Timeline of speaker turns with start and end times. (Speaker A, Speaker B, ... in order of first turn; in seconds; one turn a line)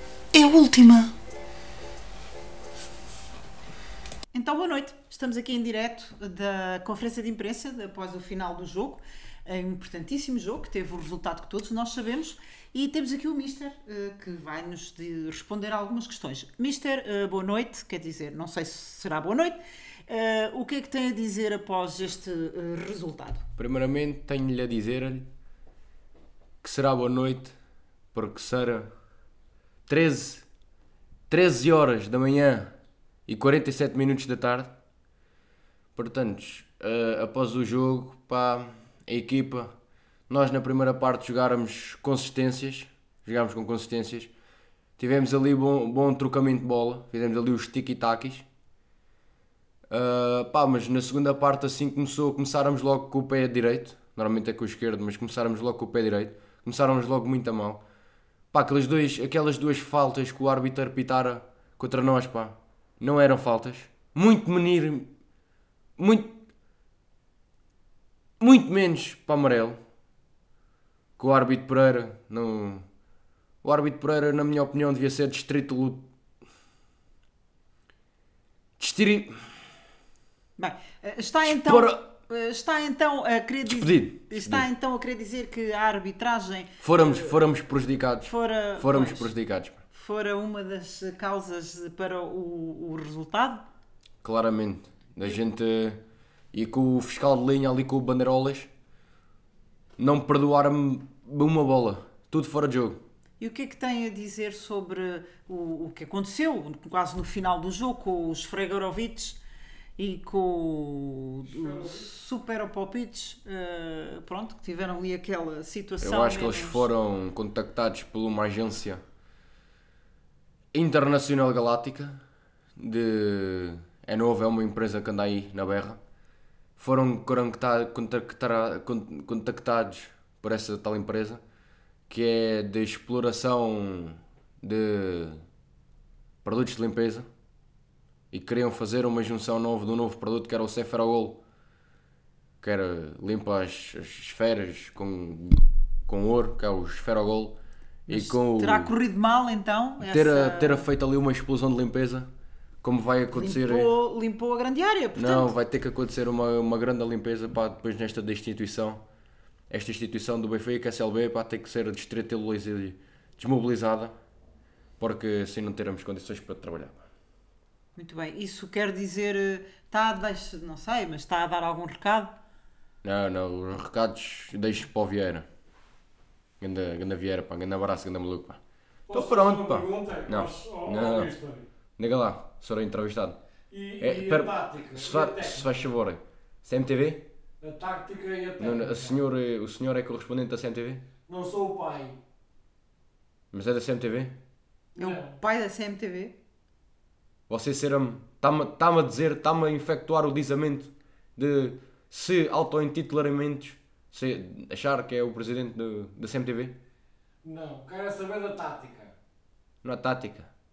Speaker A: 0.3-1.1
Speaker A: 4.3-23.4
Speaker B: 23.6-25.3
Speaker B: 26.6-27.6
Speaker B: 28.1-28.9
Speaker B: 29.9-30.5
Speaker B: 31.3-32.7
Speaker B: 33.3-34.7
Speaker B: 36.0-39.7
Speaker B: 40.3-44.3
Speaker B: 45.0-48.5
Speaker B: 49.9-57.8
Speaker B: 58.5-65.1
Speaker B: 66.0-66.4
Speaker B: 68.4-69.8
Speaker B: 71.2-72.8
Speaker B: 73.6-76.1
Speaker B: 78.8-79.6
Speaker A: 80.6-87.4
Speaker B: 81.5-82.0
Speaker B: 83.7-84.7
Speaker B: 86.8-89.8
Speaker A: 88.2-89.3
Speaker A: 89.9-93.7
Speaker B: 94.2-96.0
Speaker B: 96.5-98.7
Speaker B: 100.0-103.0
Speaker A: 103.4-109.4
Speaker A: 110.0-116.9
Speaker C: 111.5-112.1
Speaker B: 116.0-119.0
Speaker B: 120.7-122.2
Speaker B: 122.8-126.0
Speaker B: 126.8-131.4
Speaker B: 132.1-135.4
Speaker B: 136.4-137.3
Speaker B: 138.3-141.4
Speaker B: 142.6-148.9
Speaker A: 148.1-150.9
Speaker B: 150.0-152.3
Speaker B: 152.8-153.9
Speaker A: 153.3-155.5
Speaker B: 155.2-159.0
Speaker B: 159.7-164.2
Speaker B: 165.0-167.1
Speaker A: 167.9-172.4
Speaker B: 173.0-175.5
Speaker B: 176.6-178.6
Speaker C: 179.1-181.7
Speaker B: 179.1-181.4
Speaker B: 182.0-183.4
Speaker C: 183.7-185.7
Speaker B: 184.0-187.3
Speaker C: 187.6-189.2
Speaker B: 188.6-191.1
Speaker C: 191.3-192.2
Speaker B: 193.5-194.4
Speaker A: 195.0-196.4
Speaker C: 195.0-195.3
Speaker B: 197.5-206.8
Speaker C: 207.4-209.2
Speaker B: 209.8-210.5